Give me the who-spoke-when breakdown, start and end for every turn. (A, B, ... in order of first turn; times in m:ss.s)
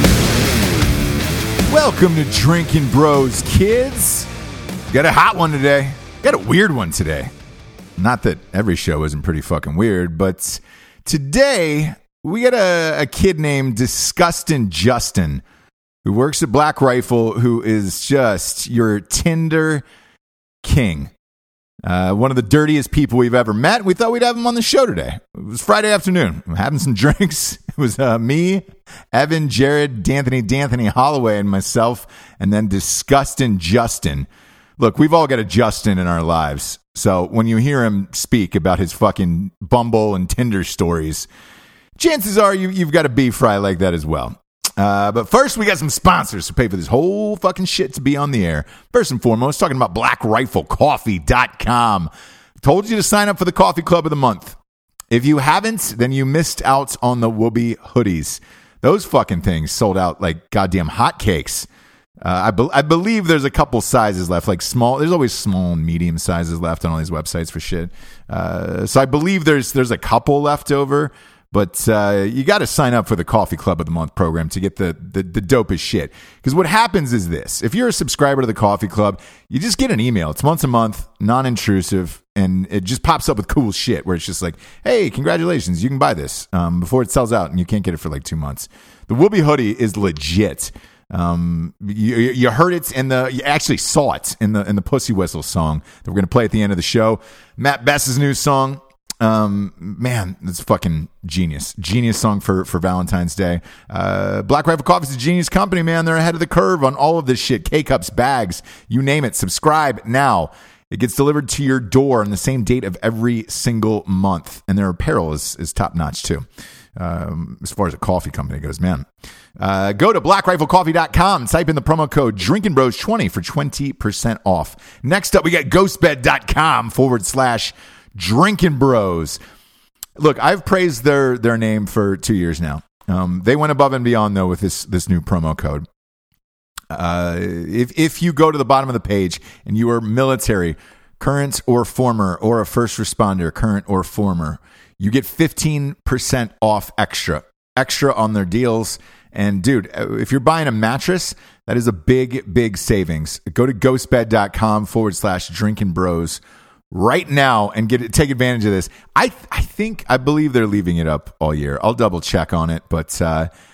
0:01.7-0:04.3 A
0:04.9-0:07.3 A
0:08.0-0:15.4 A
0:16.0-0:19.8 A
0:20.6-0:21.1 A
0:21.8-0:34.3 A
0:34.8-0:41.3 A
0:42.0-0:52.1 A
0:52.6-0:54.6 A
0:55.1-1:01.7 A
1:02.2-1:56.4 A
1:57.0-1:59.1 A
1:59.6-2:09.4 A
2:10.2-2:15.8 A
2:16.9-2:43.5 A